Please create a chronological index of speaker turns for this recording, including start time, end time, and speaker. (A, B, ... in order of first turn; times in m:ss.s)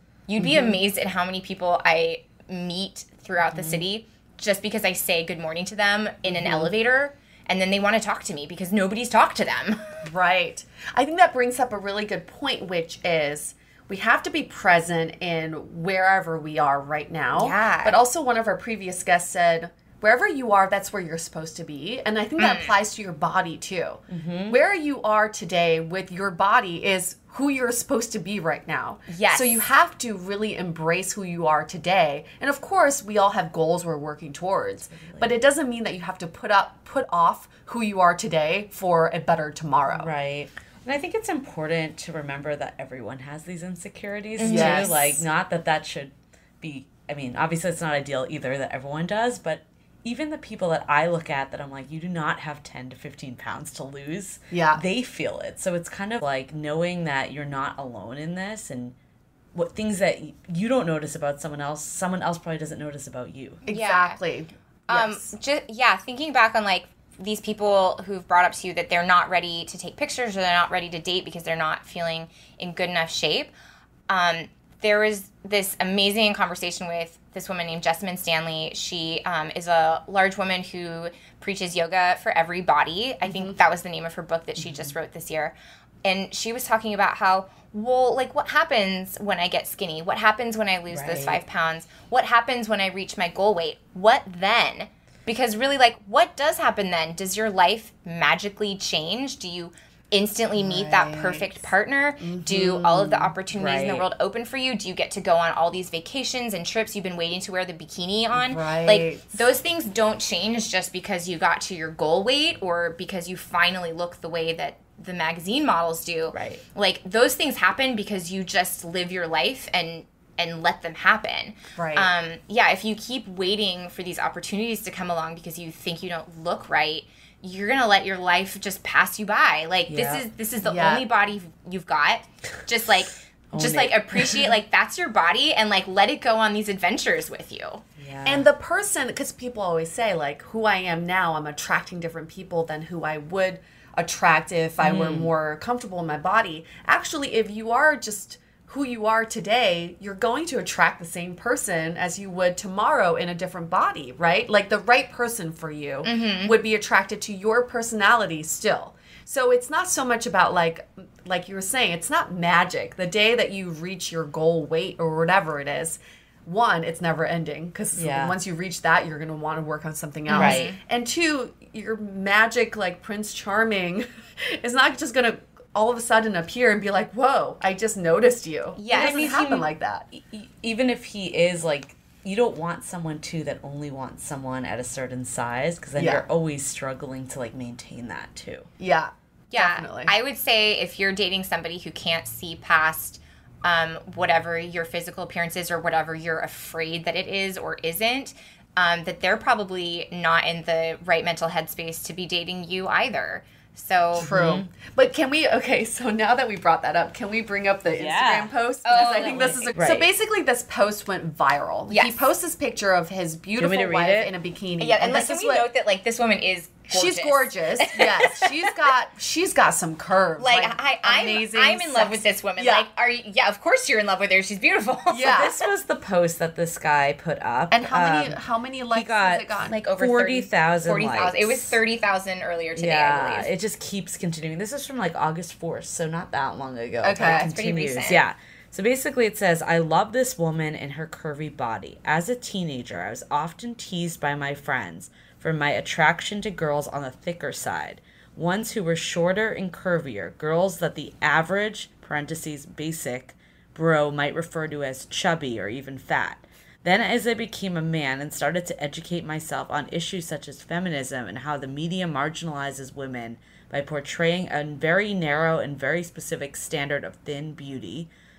0:00.3-0:09.8 A
0:00.4-0:00.8 B
0:06.3-0:06.7 B
0:10.0-0:40.1 B
0:17.3-0:18.0 A
0:22.4-0:22.7 A
0:24.1-0:24.6 C
0:29.1-0:29.6 A
0:34.9-0:35.3 C
0:39.9-0:58.9 C
0:44.4-0:45.0 A
0:44.4-0:45.2 B
0:54.5-0:54.8 B
0:59.5-1:03.6 C
1:03.6-1:05.3 B
1:03.7-1:04.2 A
1:04.9-1:13.5 A
1:14.1-1:25.5 A
1:23.2-1:23.5 B
1:24.6-1:24.9 C
1:26.0-2:17.8 A
1:30.9-1:31.4 C
1:40.6-1:41.6 B
1:42.2-1:43.3 B
1:43.5-1:44.1 C
1:48.3-1:49.4 B
1:56.3-1:56.6 C
2:01.8-2:02.1 B
2:09.9-2:10.2 C
2:10.6-2:11.0 B
2:13.5-2:14.0 C
2:18.0-2:18.4 C
2:18.2-3:00.0 B
2:24.8-2:25.3 C
2:36.0-2:36.6 A
2:47.9-2:48.4 C
2:50.3-2:50.8 A
2:50.3-2:50.7 C
2:58.8-2:59.4 A
2:58.9-3:08.7 C
3:06.0-3:06.2 B
3:08.8-3:10.1 B
3:09.5-3:24.3 A
3:24.2-3:35.7 B
3:24.2-3:24.7 C
3:27.9-3:30.1 C
3:28.8-3:29.7 A
3:31.9-3:32.3 A
3:33.6-3:34.3 C
3:34.8-3:38.8 A
3:36.9-3:42.9 B
3:40.4-3:45.6 A
3:45.1-3:45.5 B
3:45.2-3:48.4 C
3:47.7-3:49.7 B
3:48.9-3:51.8 C
3:49.6-3:53.5 A
3:52.8-4:28.1 C
3:57.0-3:57.5 B
3:57.2-3:58.2 A